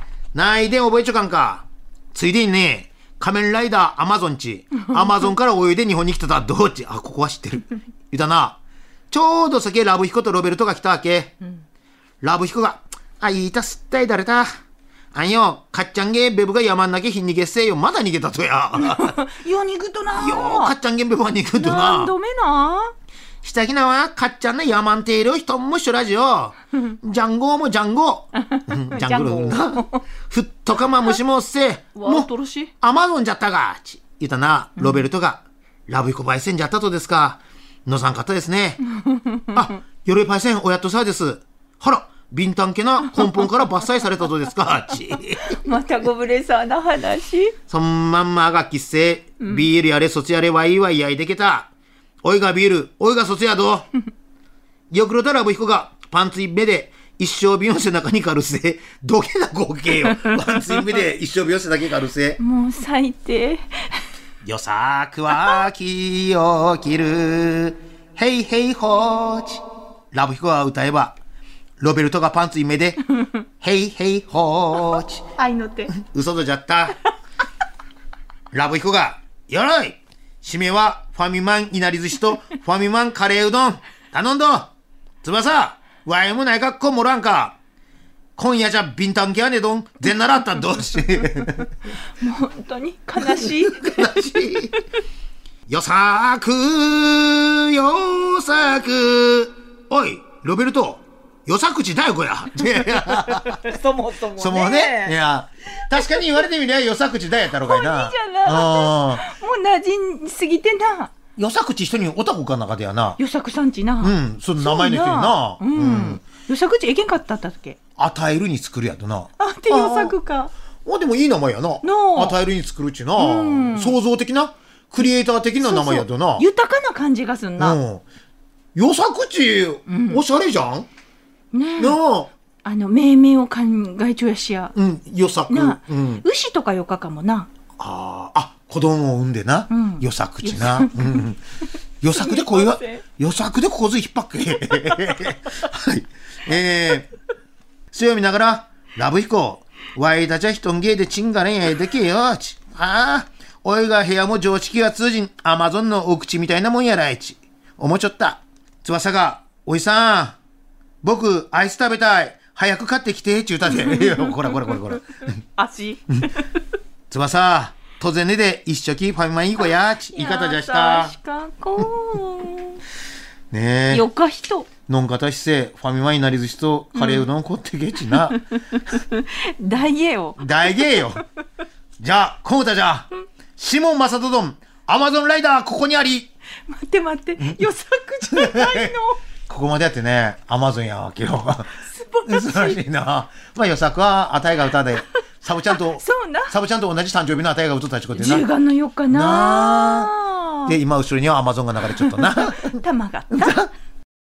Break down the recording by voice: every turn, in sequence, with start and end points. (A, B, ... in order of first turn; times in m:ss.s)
0:00.3-0:08.6 A
0:09.1-0:11.3 A
0:12.2-0:14.5 A
0:15.1-0:19.1 A
0:18.7-0:20.7 B
0:20.1-0:22.1 A
0:21.6-0:22.9 B
0:23.4-0:38.8 A
0:28.9-0:29.8 B
0:32.0-0:32.7 B
0:39.0-0:39.6 B
0:39.5-0:45.5 A
0:45.4-0:47.5 B
0:47.7-0:51.7 A
0:52.2-0:53.9 A
0:54.9-1:02.4 A
1:02.4-1:04.0 B
1:04.4-1:11.1 A
1:11.8-1:13.0 A
1:13.6-1:15.2 A
1:15.4-1:15.9 B
1:15.9-1:17.0 A
1:18.5-1:24.7 A
1:25.2-1:27.6 A
1:28.4-1:31.7 A
1:32.2-1:34.8 B
1:33.3-1:34.7 A
1:35.7-1:43.6 A
1:43.4-1:45.1 B
1:44.4-1:49.2 A
1:47.6-1:51.1 B
1:51.4-1:53.2 A
1:53.2-1:57.8 B
1:54.0-1:56.2 A
1:58.0-2:00.1 A
1:59.4-2:00.5 B
2:00.8-2:06.4 A
2:01.8-2:02.4 B
2:03.2-2:04.0 B
2:05.6-2:07.8 B
2:07.6-2:08.0 A
2:08.7-2:10.9 A
2:09.9-2:10.2 B
2:11.5-2:12.0 B
2:11.8-2:12.3 A
2:12.6-2:14.7 B
2:14.7-2:16.2 A
2:15.5-2:17.5 B
2:17.8-2:21.4 A
2:19.7-2:21.3 B
2:22.0-2:27.1 A
2:22.1-2:23.0 B
2:27.9-2:40.4 A
2:41.0-2:45.4 A
2:43.8-2:44.1 B
2:45.6-2:46.5 B
2:47.1-2:51.1 A
2:50.1-2:52.8 B
2:53.5-2:54.0 A
2:53.9-2:54.7 B
2:54.9-2:58.4 A
2:56.9-2:57.3 B
2:58.7-3:01.0 B
3:00.4-3:01.2 A
3:02.0-3:06.3 A
3:06.7-3:09.2 B
3:08.3-3:08.9 A
3:09.5-3:18.4 A
3:11.8-3:12.8 B
3:15.9-3:16.5 B
3:18.1-3:20.8 B
3:19.1-3:20.1 A
3:20.6-3:22.8 A
3:22.1-3:23.6 B
3:23.3-3:23.7 A